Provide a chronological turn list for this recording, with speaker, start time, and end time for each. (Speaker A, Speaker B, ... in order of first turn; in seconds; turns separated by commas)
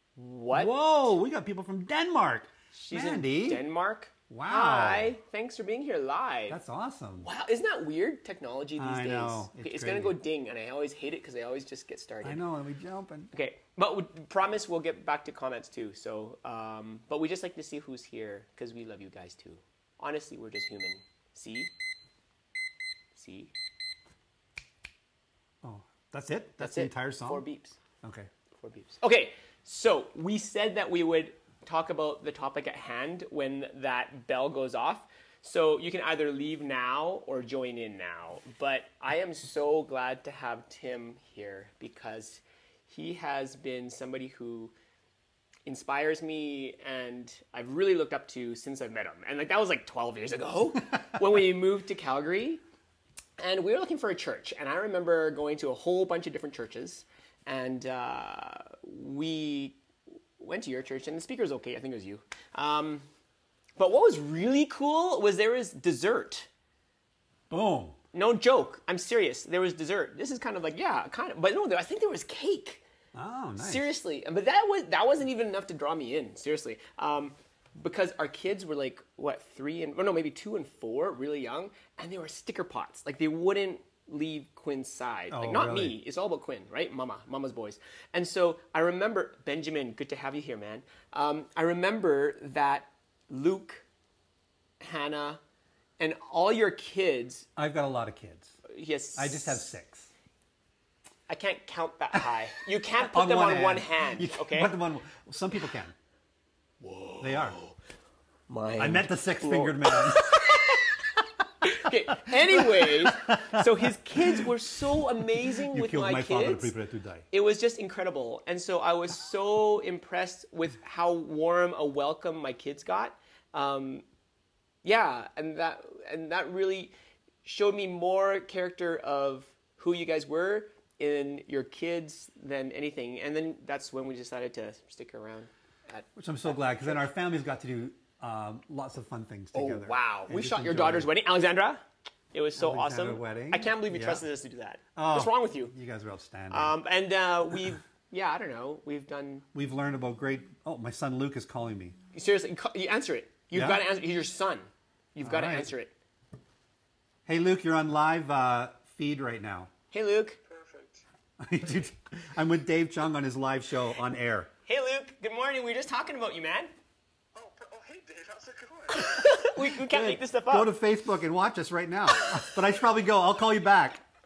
Speaker A: 0.1-0.7, Speaker B: 0.5-3.6, Speaker A: 2.7-6.6, Speaker B: 4.3-5.1, Speaker B: 6.5-7.3, Speaker A: 7.2-12.4, Speaker B: 8.8-10.2, Speaker B: 12.2-13.3, Speaker A: 13.3-21.7, Speaker A: 23.1-23.5, Speaker B: 25.6-27.4, Speaker A: 26.6-27.8, Speaker B: 28.0-28.3, Speaker A: 28.6-44.7, Speaker A: 45.6-52.6, Speaker A: 53.4-59.8, Speaker A: 60.4-63.0, Speaker A: 63.8-66.5, Speaker B: 67.5-68.0, Speaker A: 68.1-72.8, Speaker B: 73.1-73.9, Speaker A: 73.6-93.8, Speaker B: 85.3-86.0, Speaker A: 94.8-95.4, Speaker A: 96.0-97.5, Speaker B: 97.5-98.6, Speaker A: 98.7-99.6, Speaker B: 99.2-100.1, Speaker A: 101.3-104.8, Speaker B: 103.0-105.9, Speaker A: 106.8-107.8, Speaker B: 107.2-107.6, Speaker A: 108.5-110.9, Speaker B: 108.8-110.8, Speaker A: 111.6-116.7, Speaker B: 112.3-113.7, Speaker B: 114.2-114.5, Speaker B: 115.5-117.2, Speaker A: 117.3-124.0, Speaker A: 124.8-126.9, Speaker A: 127.4-137.0, Speaker B: 136.2-141.1, Speaker A: 139.5-145.7, Speaker B: 142.6-144.2, Speaker B: 144.9-146.7, Speaker A: 146.5-149.4, Speaker B: 149.5-152.0, Speaker A: 152.1-155.9, Speaker B: 153.5-153.8, Speaker B: 155.2-155.7, Speaker B: 157.2-159.7, Speaker A: 159.9-160.4, Speaker C: 160.5-161.0, Speaker B: 161.4-164.5, Speaker A: 164.7-166.7, Speaker C: 167.3-169.3, Speaker A: 168.9-170.7, Speaker B: 169.7-174.0